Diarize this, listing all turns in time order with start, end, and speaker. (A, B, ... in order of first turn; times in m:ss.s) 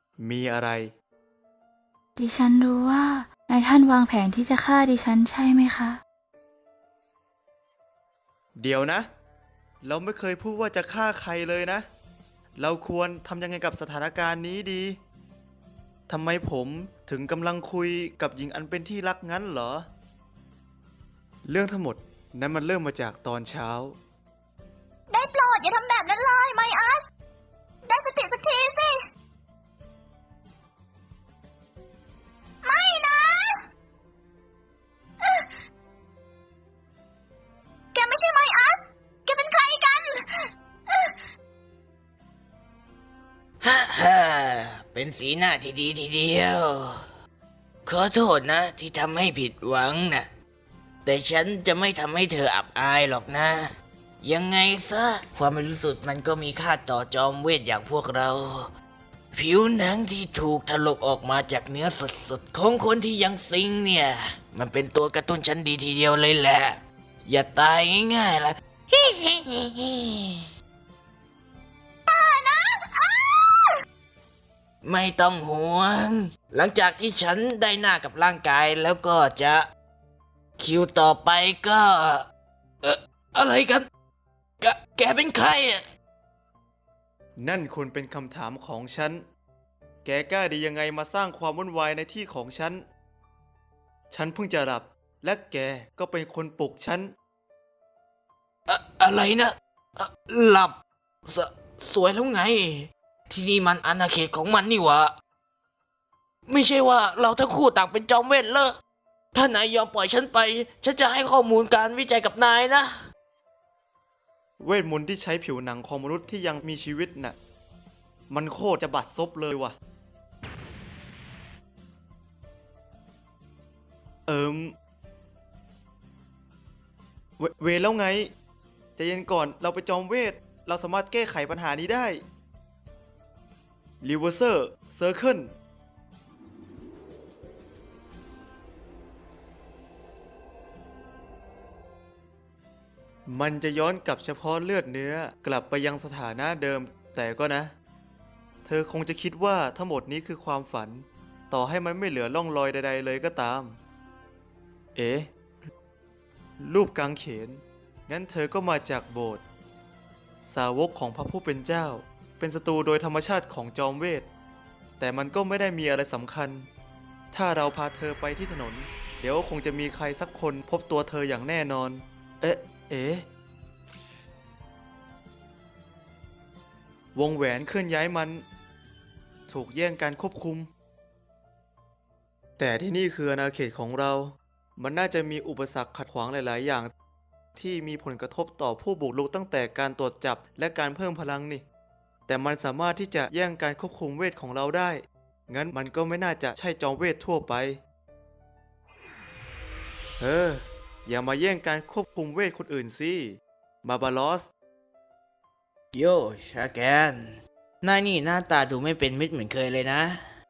0:00.2-0:00.9 A
0:02.2-0:06.0 B
0:08.6-0:09.1 A
0:09.8-0:11.8 A
0:12.6-0:15.0 A
0:16.1-0:19.9 A
0:21.4-0:24.0 A
0:25.1-0:27.0 C
0:25.4-0:25.6 B
0:26.3-0:26.7 B
0:27.9-0:28.9 C
0:28.1-0:28.8 B
0:32.7-0:33.4 C
0:32.7-0:33.1 B
0:38.0-0:40.1 C
0:43.6-0:47.0 D
0:47.9-0:50.3 D
0:51.0-0:58.7 D
0:59.3-1:10.4 D
1:12.1-1:13.7 C
1:14.8-1:19.7 D
1:20.6-1:22.2 D
1:22.8-1:23.9 D
1:24.6-1:25.8 D
1:27.4-1:29.2 A
1:30.0-1:32.8 A
1:34.1-1:37.1 A
1:38.7-1:45.1 D
1:46.5-1:48.8 D
1:49.3-1:53.0 D
1:54.6-1:57.4 A
1:58.3-1:59.8 A
2:04.3-2:04.8 A
2:07.4-2:08.3 A
2:09.0-2:12.2 A
2:14.0-2:15.5 A
2:23.3-2:27.7 A
2:28.6-2:33.8 A
2:35.0-2:35.3 A
2:36.6-2:39.4 A
2:40.4-2:44.3 A
2:45.0-2:46.7 A
2:47.3-2:53.3 A
2:57.1-2:58.4 A
2:59.5-3:00.7 A
3:02.6-3:06.9 A
3:07.6-3:11.6 A
3:12.3-3:17.8 A
3:20.2-3:24.5 A
3:25.9-3:30.3 D